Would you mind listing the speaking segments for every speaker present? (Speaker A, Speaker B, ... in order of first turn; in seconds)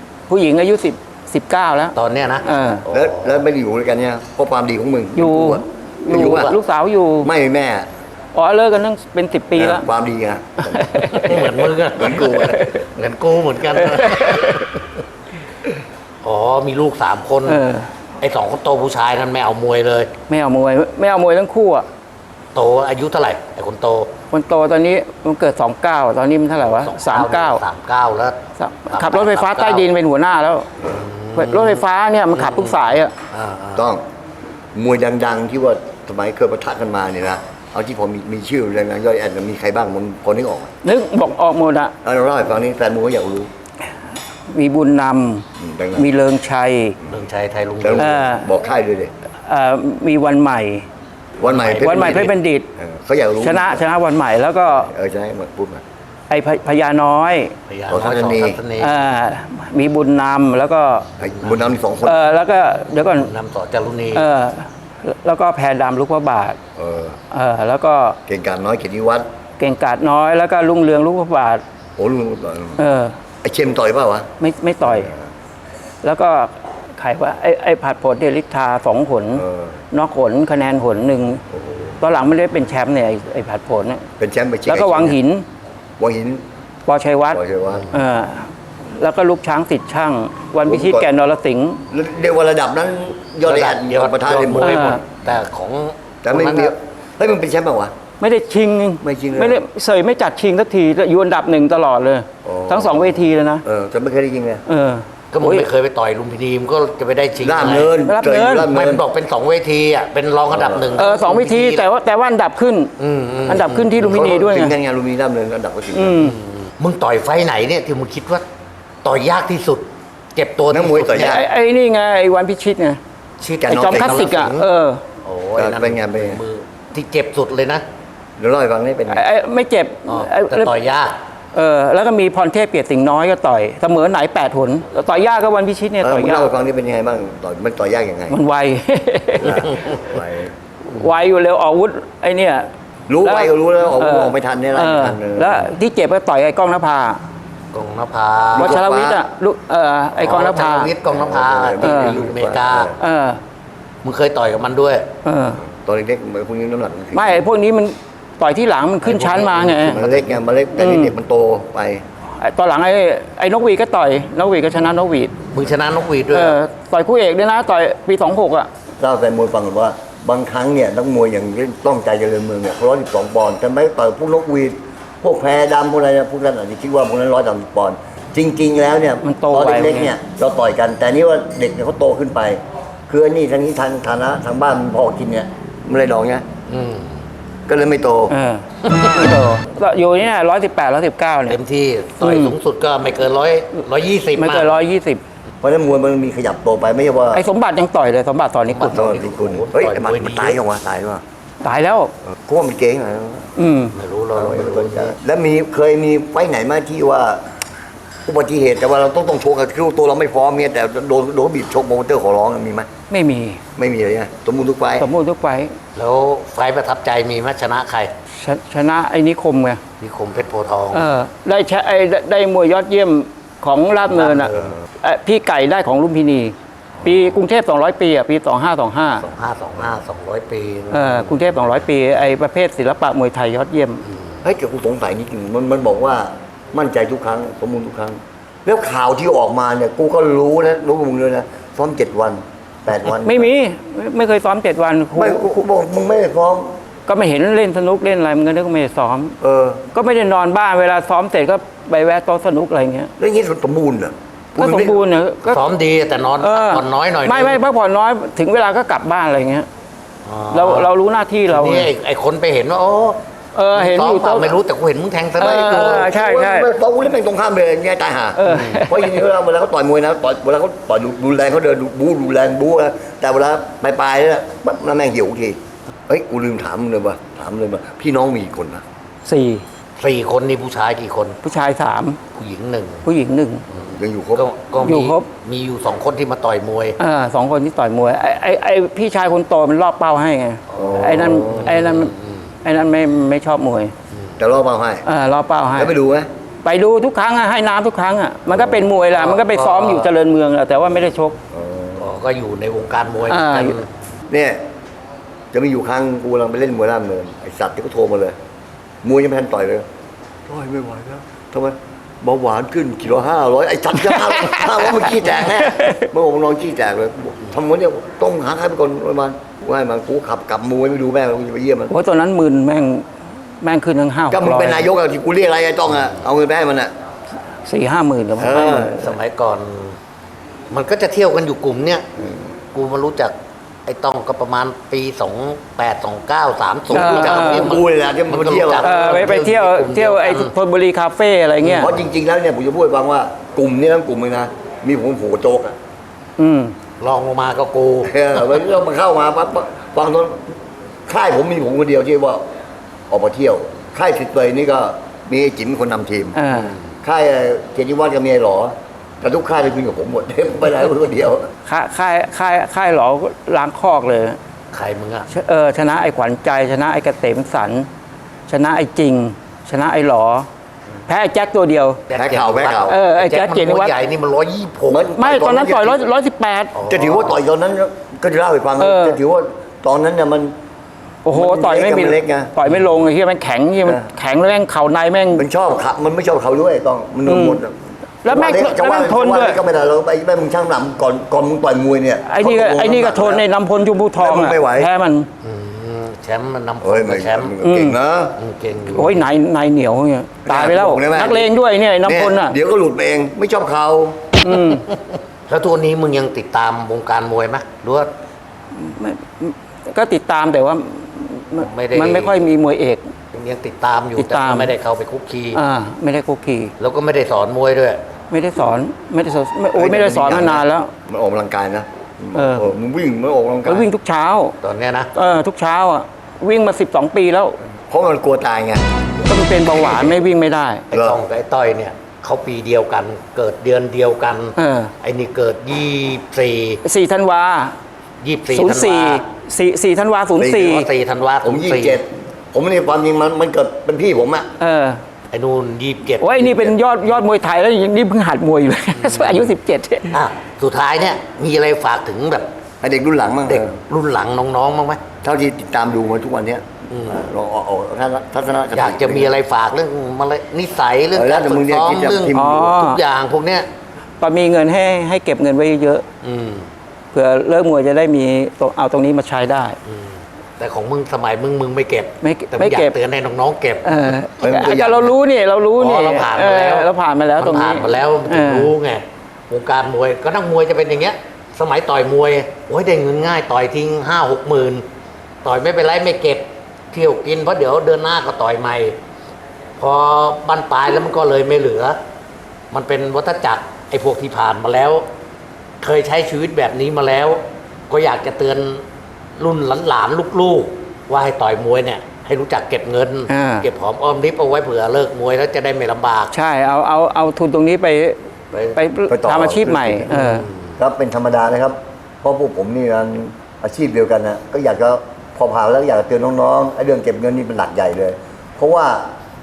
Speaker A: 0.3-2.8, 5.2-7.3, 8.3-9.8, 10.6-11.6, 12.2-12.8, 13.8-14.7, 17.4-17.9, 20.3-21.8, 24.3-27.6, 28.6-30.7, 31.3-33.1, 40.8-41.9, 44.5-47.0, 48.0-48.5, 49.5-50.9, 51.6-52.7, 53.4-54.9, 56.3-57.5, 58.8-61.1, 62.0-63.3, 64.1-66.6, 67.3-68.2, 69.6-71.6, 72.8-73.2, 74.4-75.1, 76.0-81.4, 82.0-84.0, 84.7-85.4, 86.9-91.8, 94.6-95.0, 98.2-103.6, 104.7-105.7, 108.0-108.7, 111.0-112.9, 113.5-114.7, 115.9-116.4, 121.2-123.0, 123.7-125.0, 129.1-130.7, 131.5-136.5, 138.3-139.8, 140.9-142.7, 143.2-147.2, 148.5-150.9, 151.8-152.2, 153.0-153.4, 155.2-155.6, 157.1-160.0, 160.8-161.1, 162.4-165.3, 166.3-168.7, 179.2-180.1, 188.3-191.6, 192.2-192.5, 194.3-195.2, 197.3-199.1, 201.6-202.1, 203.6-203.9, 213.1-213.6, 215.0-215.8, 218.3-219.8, 220.9-229.2, 230.9-234.0, 243.1-245.6, 247.1-249.3, 249.9-253.1, 254.6-255.7, 256.4-259.7, 260.5-261.9, 263.5-264.6, 265.4-266.7, 268.4-269.2, 279.2-279.6, 281.4-282.2, 283.0-283.6, 284.8-285.3, 287.0-293.9, 295.0-295.9, 296.6-301.4, 303.3-303.8, 313.9-316.1, 321.9-323.1, 323.6-324.9, 327.6-328.9, 336.9-337.7, 338.8-341.9, 346.4-346.7, 356.3-356.8, 361.7-364.4, 365.3-367.9, 368.5-370.5, 371.1-372.0, 372.9-373.9, 375.1-376.8, 378.8-379.2, 381.2-385.4, 387.2-387.6, 388.2-389.6, 392.2-395.3, 397.6-398.0, 398.9-402.5, 404.4-404.9, 408.7-413.1, 414.2-414.7, 415.5-416.7, 418.3-420.9, 422.3-422.7, 423.6-424.5, 425.1-427.6, 429.2-430.8, 434.6-434.9, 436.8-437.8, 438.5-440.9, 444.6-445.0, 446.2-450.1, 462.3-463.0, 464.2-466.0, 467.1-469.8, 472.2-472.9, 473.8-478.7, 503.3-503.7, 506.3-508.2, 508.7-510.5
Speaker B: 1.9-3.3, 6.2-6.5, 11.1-14.7, 16.2-17.6, 18.2-20.1, 22.5-24.1, 26.6-28.4, 28.9-29.9, 30.9-31.8, 32.3-33.8, 47.1-48.2, 51.4-52.3, 57.7-59.0, 63.1-64.2, 93.4-96.7, 105.3-107.9, 108.6-111.8, 113.0-114.1, 116.2-118.4, 119.0-121.4, 123.4-124.7, 125.2-127.8, 130.1-131.1, 147.7-148.8, 150.2-152.9, 154.0-155.1, 159.0-160.4, 165.5-166.6, 186.7-187.1, 191.5-194.7, 198.7-200.6, 203.9-205.2, 215.9-218.1, 220.0-221.0, 224.1-224.8, 229.2-231.3, 234.1-234.3, 255.4-257.6, 260.2-260.9, 261.5-263.2, 263.7-266.1, 268.5-268.8, 280.0-281.4, 282.3-283.0, 283.7-287.0, 290.7-292.4, 299.1-300.1, 302.0-303.9, 329.0-330.0, 330.7-332.1, 332.7-333.3, 333.9-340.5, 341.6-341.9, 347.0-348.1, 364.7-365.3, 372.1-375.1, 376.7-377.4, 395.4-397.5, 398.4-399.2, 404.5-408.1, 411.6-412.4, 413.3-415.6, 416.8-418.0, 424.6-425.1, 429.8-430.1, 430.9-436.8, 438.2-439.2, 440.5-442.0, 445.3-446.8, 449.0-449.4, 450.1-452.4, 453.4-455.1, 456.9-457.2, 458.7-463.7, 466.2-466.7, 469.9-473.9, 475.8-484.8, 485.4-489.0, 489.8-492.0, 492.7-495.1, 495.8-498.8, 499.4-506.3, 508.5-508.8, 510.1-510.7
Speaker C: 2.9-6.5, 7.2-7.8, 9.6-11.2, 11.9-12.6, 33.8-34.0, 34.7-40.7, 42.0-43.5, 45.6-46.1, 47.8-49.1, 51.4-53.8, 54.7-55.8, 57.9-58.6, 61.2-62.2, 66.8-67.2, 68.3-69.2, 72.0-72.8, 73.4-74.3, 74.8-75.2, 79.3-79.7, 81.5-81.9, 84.2-85.2, 86.0-86.4, 87.3-87.9, 90.6-91.1, 91.9-94.9, 96.2-97.9, 99.0-99.6, 102.4-104.6, 107.4-109.0, 110.5-111.1, 114.0-116.2, 120.7-121.4, 123.6-124.3, 125.6-126.4, 128.4-129.2, 136.0-138.4, 139.4-140.5, 143.1-145.7, 148.5-149.2, 151.1-152.9, 155.7-157.4, 159.8-162.0, 169.0-186.4, 187.7-188.3, 195.6-197.4, 198.9-201.2, 202.4-203.5, 204.3-207.4, 208.2-212.9, 213.8-215.1, 234.4-243.5, 245.1-246.8, 249.4-249.8, 253.2-255.0, 265.4-278.8, 283.9-284.4, 290.7-291.7, 294.4-295.0, 295.7-296.3, 298.5-298.9, 301.5-302.1, 304.3-304.6, 305.5-308.3, 309.0-309.9, 310.5-321.9, 324.3-326.9, 328.4-329.2, 336.9-339.0, 341.7-345.7, 348.0-350.5, 351.1-352.4, 353.1-356.4, 357.0-361.4, 372.1-372.9, 374.9-376.0, 376.9-380.5, 381.3-382.5, 385.3-387.7, 388.2-393.4, 394.2-394.9, 396.8-398.4, 400.4-401.5, 402.0-404.4, 419.7-423.9, 427.9-428.8, 430.9-431.2, 440.4-440.7, 441.4-444.5, 452.8-453.8, 455.2-459.4, 461.1-462.6, 474.4-475.1, 509.1-510.1, 510.8-519.1